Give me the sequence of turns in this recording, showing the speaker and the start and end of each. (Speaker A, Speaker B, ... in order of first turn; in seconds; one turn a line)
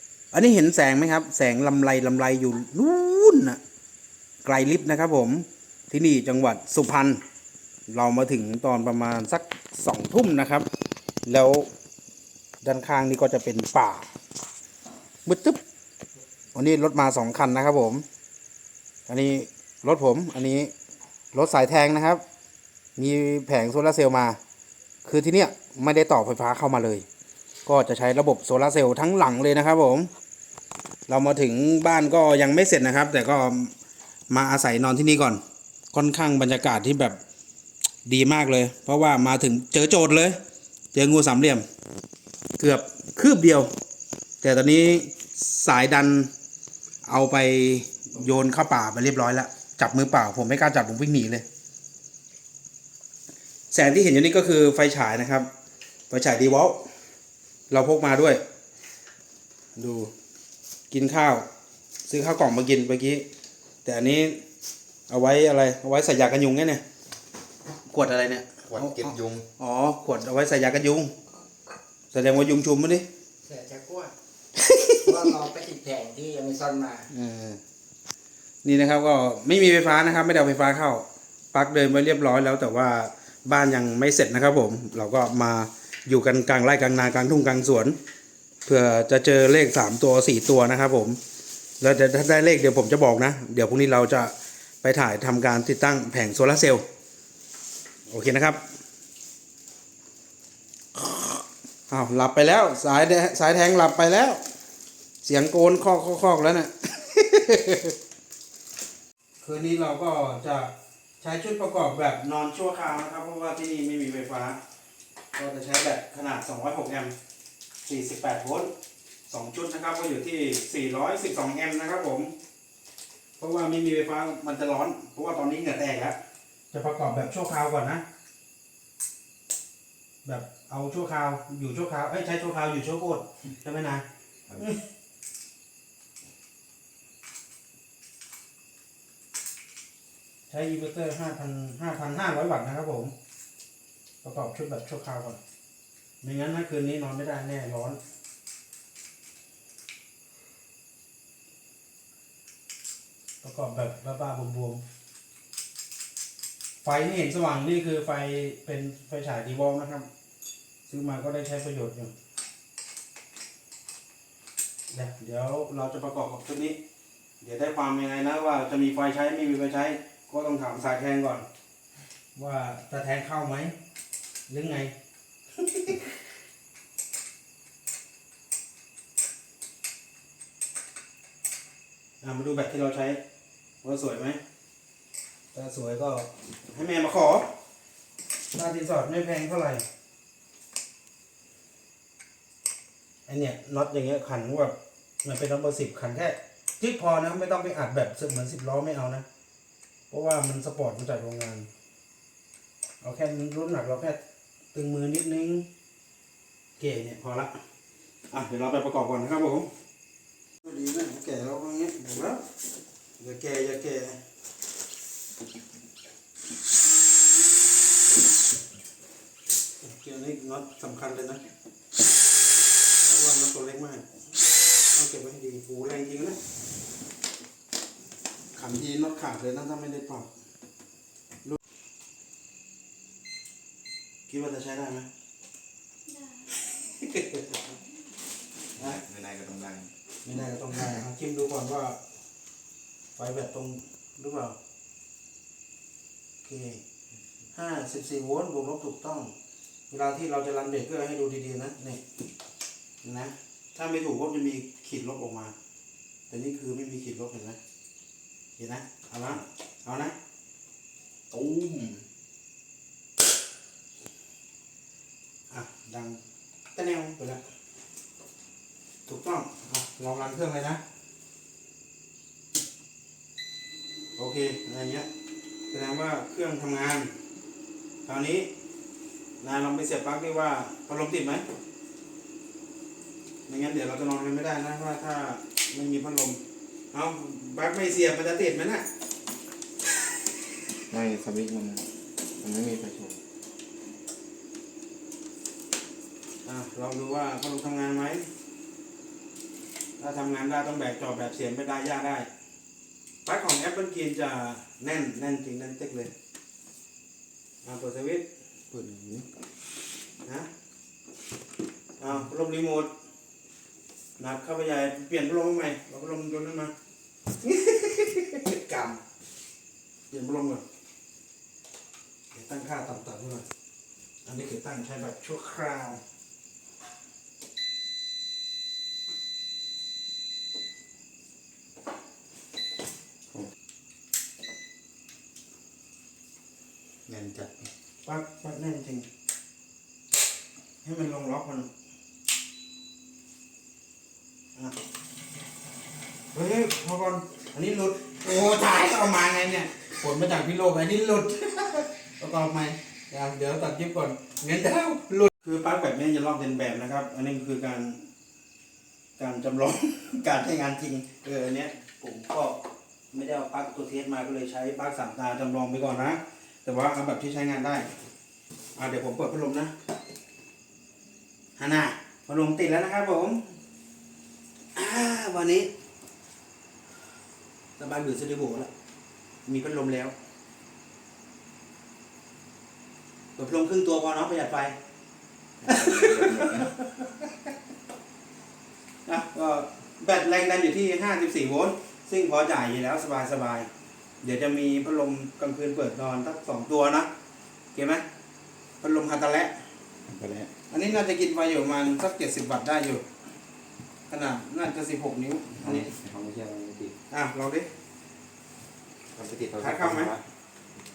Speaker A: 0.3-3.6
Speaker A: 4.5-7.2
Speaker A: 7.9-10.7
Speaker A: 11.3-11.7
Speaker A: 12.6-14.1
Speaker A: 15.2-15.6
Speaker A: 16.5-18.1
Speaker A: 19.1-20.7
Speaker A: 21.3-22.2
Speaker A: 23.0-24.4
Speaker A: 25.1-27.1
Speaker A: 27.7-30.1
Speaker A: 31.1-33.7
Speaker A: 34.3-35.4
Speaker A: 35.9-37.2
Speaker A: 38.0-40.4
Speaker A: 40.9-41.7
Speaker A: 42.6-43.7
Speaker A: 44.4-46.3
Speaker A: 47.1-51.5
Speaker A: 53.7-55.5
Speaker A: 56.1-56.9
Speaker A: 57.7-58.4
Speaker A: 59.8-60.1
Speaker A: 60.9-61.5
Speaker A: 62.1-63.2
Speaker A: 63.9-64.4
Speaker A: 65.1-66.8
Speaker A: 67.9-71.1
Speaker B: 68.7-69.5
Speaker A: 72.1-73.1
Speaker C: 73.4-74.1
Speaker A: 74.6-75.2
Speaker C: 75.0-77.1
Speaker A: 77.1-77.6
Speaker A: 78.6-88.0
Speaker A: 88.7-91.2
Speaker A: 91.8-96.8
Speaker A: 98.1-98.6
Speaker A: 101.0-104.4
Speaker A: 105.2-108.0
Speaker A: 109.4-114.6
Speaker A: 115.3-117.1
Speaker A: 117.9-118.7
Speaker A: 119.3-122.3
Speaker A: 123.4-126.2
Speaker A: 126.7-128.0
Speaker A: 130.2-134.0
Speaker A: 140.5-143.1
Speaker A: 144.2-145.4
Speaker A: 146.2-148.0
Speaker A: 153.4-154.8
Speaker A: 156.8-160.1
Speaker A: 160.9-162.1
Speaker A: 164.9-166.8
Speaker A: 167.4-171.5
Speaker A: 172.3-173.8
Speaker A: 174.5-174.9
Speaker A: 175.6-176.1
Speaker A: 182.2-183.2
Speaker A: 183.8-184.4
Speaker A: 185.5-187.5
Speaker A: 188.5-189.8
Speaker A: 193.3-199.3
Speaker A: 200.1-201.7
Speaker A: 203.0-204.2
Speaker A: 204.7-205.7
Speaker A: 206.8-207.6
Speaker A: 208.3-209.7
Speaker A: 210.6-212.4
Speaker A: 213.2-214.2
Speaker A: 219.8-221.4
Speaker A: 223.0-224.1
Speaker A: 224.9-226.4
Speaker A: 228.6-230.3
Speaker A: 234.3-235.1
Speaker A: 236.7-237.6
Speaker B: 238.8-239.9
Speaker A: 240.2-242.0
Speaker A: 243.2-244.6
Speaker A: 246.4-246.8
Speaker A: 247.5-249.3
Speaker A: 249.9-252.0
Speaker A: 253.0-255.5
Speaker A: 256.3-257.6
Speaker A: 258.6-260.1
Speaker B: 261.3-262.0
Speaker A: 261.4-261.8
Speaker A: 265.5-266.2
Speaker A: 266.7-267.4
Speaker A: 269.1-270.8
Speaker A: 274.2-275.1
Speaker A: 275.7-277.1
Speaker A: 278.1-278.5
Speaker A: 279.4-281.4
Speaker A: 283.5-286.4
Speaker A: 286.9-288.9
Speaker B: 290.9-291.9
Speaker B: 292.4-293.2
Speaker A: 296.4-298.3
Speaker A: 300.0-302.3
Speaker A: 303.2-306.1
Speaker A: 307.6-309.2
Speaker A: 312.0-312.9
Speaker A: 314.2-316.7
Speaker A: 317.4-319.0
Speaker A: 320.1-320.6
Speaker A: 322.3-323.4
Speaker A: 324.2-326.0
Speaker B: 337.1-337.7
Speaker A: 338.1-339.1
Speaker A: 340.8-341.7
Speaker A: 346.3-358.0
Speaker A: 359.2-362.6
Speaker A: 363.1-367.9
Speaker A: 368.8-369.7
Speaker A: 371.6-373.4
Speaker A: 374.8-375.7
Speaker A: 377.8-378.7
Speaker A: 379.5-380.1
Speaker A: 383.4-384.8
Speaker B: 385.6-386.7
Speaker A: 385.7-387.3
Speaker A: 389.1-393.7
Speaker A: 394.2-397.1
Speaker A: 397.7-398.0
Speaker A: 398.8-399.6
Speaker B: 400.1-400.5
Speaker A: 400.7-403.0
Speaker A: 404.1-405.9
Speaker B: 405.6-406.9
Speaker A: 407.1-407.7
Speaker B: 409.1-410.2
Speaker A: 409.6-410.1